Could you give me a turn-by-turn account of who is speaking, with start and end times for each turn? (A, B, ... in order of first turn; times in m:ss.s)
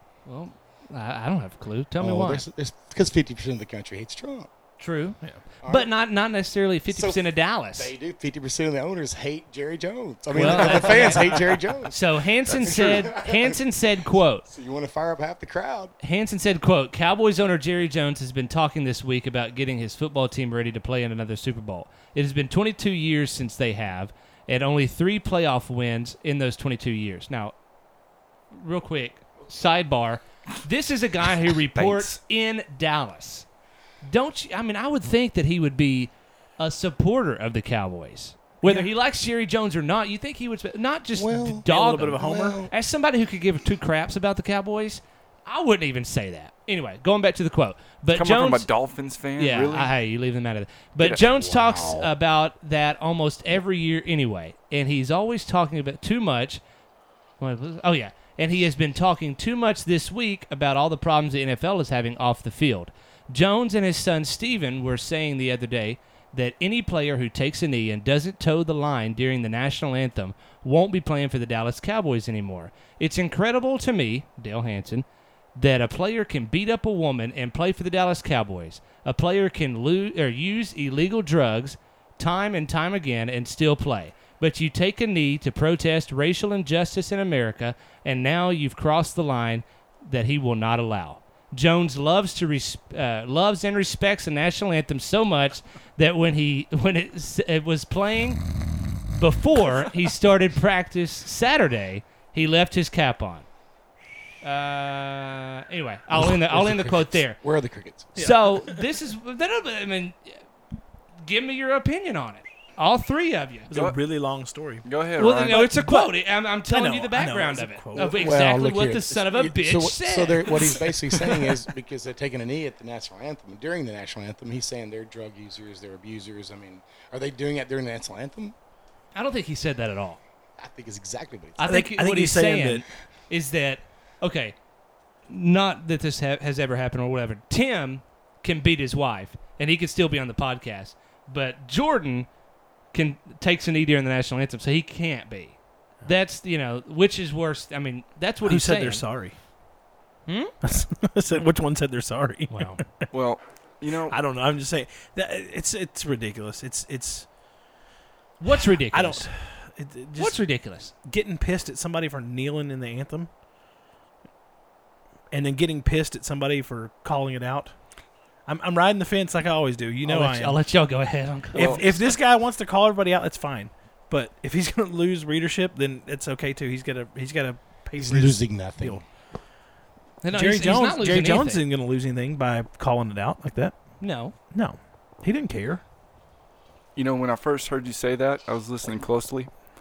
0:00.2-0:02.4 A
0:02.0-0:04.5 B
0:04.8-0:07.9 A
0:05.6-0:05.9 B
0:06.9-0:13.8 B
0:10.3-0:14.4 A
0:10.4-0:11.0 C
0:14.4-0:15.9 B
0:16.0-0:27.5 A
0:28.5-0:33.5 A
0:31.7-0:32.2 D
0:34.0-0:48.7 A
0:38.6-0:38.9 C
0:41.1-0:42.7 B
0:41.6-0:42.6 C
0:48.1-0:49.9 D
0:49.4-0:56.6 A
0:51.3-0:52.1 B
0:57.4-1:38.4 A
1:39.1-1:43.5 A
1:44.4-1:47.4 A
1:46.2-1:48.1 B
1:48.2-1:48.8 C
1:48.2-1:50.4 A
1:51.2-1:53.7 A
1:53.7-1:54.8 C
1:53.7-1:54.0 D
1:54.8-1:55.6 D
1:55.2-2:00.8 A
1:55.4-1:58.3 C
1:57.9-2:08.5 B
2:09.1-2:10.2 A
2:10.6-2:11.7 B
2:11.6-2:14.5 A
2:11.6-2:12.8 C
2:15.3-2:22.3 A
2:22.9-2:29.0 A
2:28.4-2:29.3 C
2:30.3-2:30.5 A
2:30.6-2:33.1 C
2:32.5-2:32.8 A
2:33.1-2:34.2 D
2:34.1-2:37.3 C
2:38.4-2:39.3 A
2:38.9-2:43.3 C
2:40.2-2:40.9 A
2:45.3-2:47.8 C
2:48.4-2:50.6 C
2:50.0-2:52.0 A
2:51.5-2:59.0 C
2:51.6-2:51.8 D
2:58.0-2:59.0 B
3:00.2-3:01.6 A
3:00.3-3:03.8 C
3:04.0-3:04.3 A
3:04.4-3:05.8 C
3:07.0-3:09.5 D